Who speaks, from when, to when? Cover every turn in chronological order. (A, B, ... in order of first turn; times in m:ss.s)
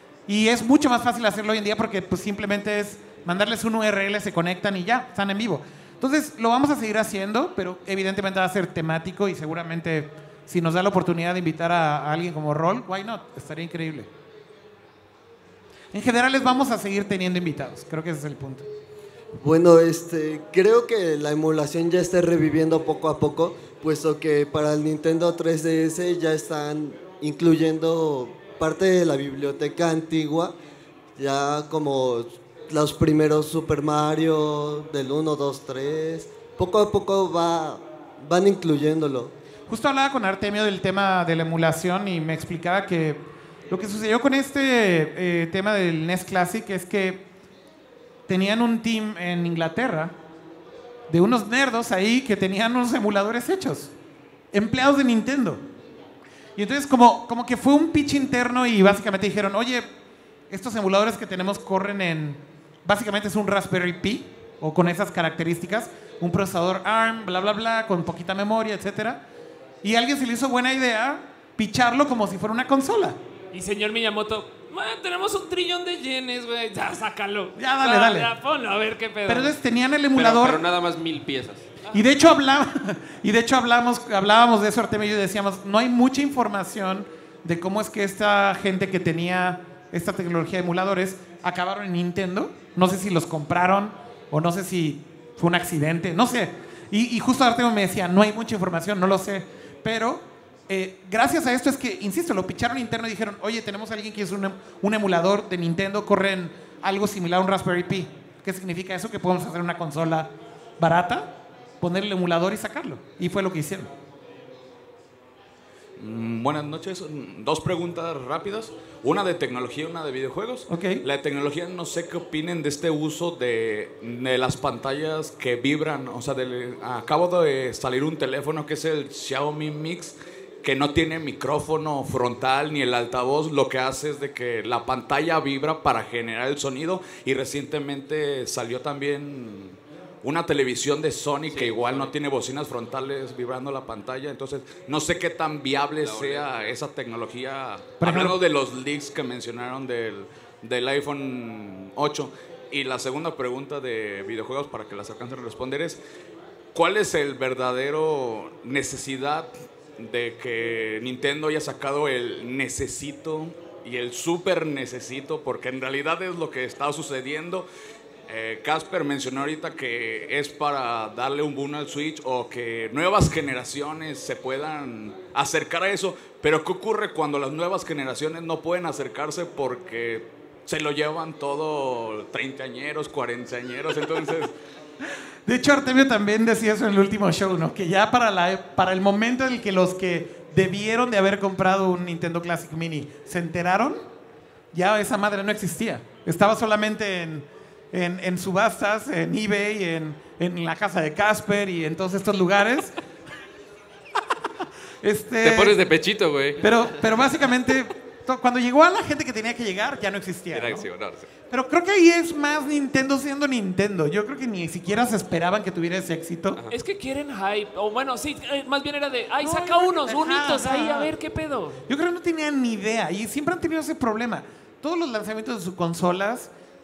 0:00.3-0:14.1 A
0:15.9-0:18.6 A
0:19.4-0:30.6 B
0:31.2-0:39.3 B
0:39.7-0:47.3 A
0:48.3-0:50.2 A
0:51.1-0:53.9 A
0:54.5-0:55.6 A
0:56.6-0:59.9 A
1:00.5-1:09.2 A
1:09.8-1:13.2 A
1:13.5-1:19.6 C
1:17.6-1:18.3 A
1:19.3-1:20.6 A
1:20.2-1:21.7 D
1:21.9-1:53.9 A
1:56.0-2:36.0 E
2:00.7-2:01.0 A
2:21.5-2:22.2 D
2:26.0-2:26.8 D
2:28.0-2:28.4 A
2:36.7-2:47.7 E
2:48.3-3:04.5 E
3:05.5-3:14.0 A
3:14.7-3:23.0 A
3:25.0-3:25.8 A
3:25.4-3:26.7 F
3:26.6-3:30.9 A
3:30.5-3:31.3 F
3:31.5-3:36.6 A
3:36.7-3:41.8 C
3:39.4-3:41.1 A
3:41.9-3:46.5 A